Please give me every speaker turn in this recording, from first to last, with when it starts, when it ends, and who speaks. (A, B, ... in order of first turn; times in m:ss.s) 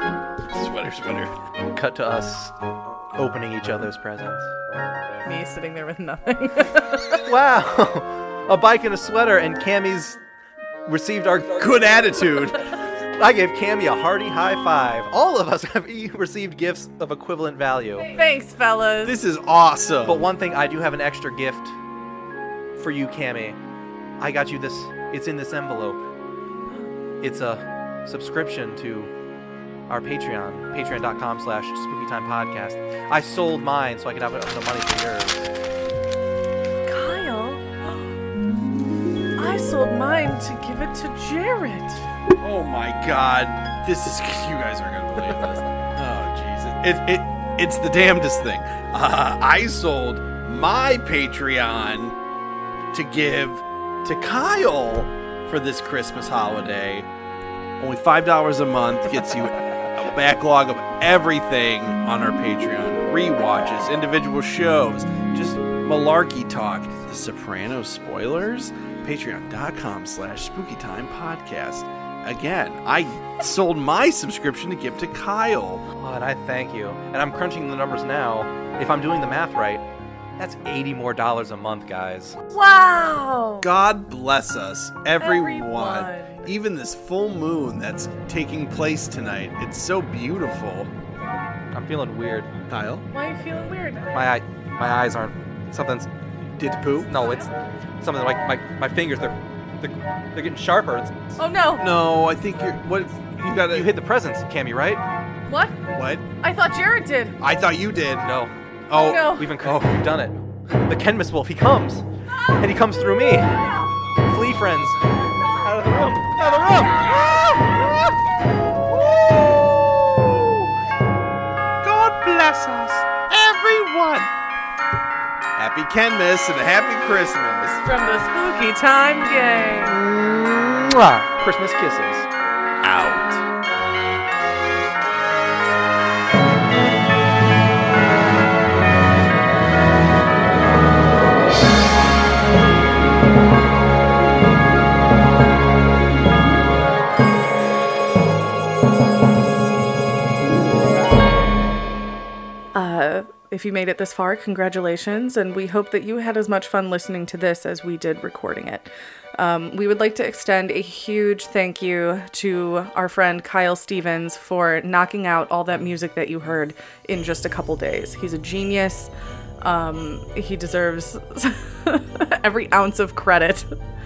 0:00.5-0:01.3 A
0:01.7-0:02.6 B
0:03.1-0:04.5 B
0:05.2-0:07.3 C
0:07.2-0:10.2 B
0:10.8-0:18.1 B
0:11.5-0:12.7 A
0:18.1-0:19.2 C
0:19.0-0:20.3 A
0:20.0-0:21.7 B
0:22.8-0:23.6 B
0:24.2-0:26.0 B
0:27.2-0:29.1 B
0:29.9-0:35.5 B
0:36.8-0:38.1 C
0:39.4-0:42.0 C
0:42.4-0:52.2 A
0:52.9-0:57.1 A
0:57.8-1:15.8 A
1:16.0-1:19.8 B
1:20.4-1:22.4 B
1:22.5-1:23.7 C
1:23.6-1:30.9 A
1:25.2-1:26.5 C
1:31.7-1:32.6 B
1:32.7-1:33.0 A
1:33.1-1:34.2 C
1:34.1-1:36.1 B
1:36.5-1:37.1 A
1:37.1-1:41.3 B
1:41.4-1:41.9 C
1:41.8-1:43.9 A
1:43.7-1:45.0 B
1:45.4-1:47.4 C
1:45.9-1:46.3 A
1:47.4-1:48.3 A
1:48.2-1:48.5 B
1:48.9-1:50.0 A
1:48.9-1:49.6 C
1:49.2-1:53.6 B
1:54.2-1:55.1 B
1:55.6-1:57.5 B
1:56.9-1:58.1 A
1:58.9-2:00.7 A
2:01.8-2:04.3 A
2:05.6-2:07.8 A
2:07.8-2:10.0 C
2:10.0-2:11.3 A
2:11.2-2:12.3 B
2:12.8-2:13.4 A
2:32.7-2:53.7 C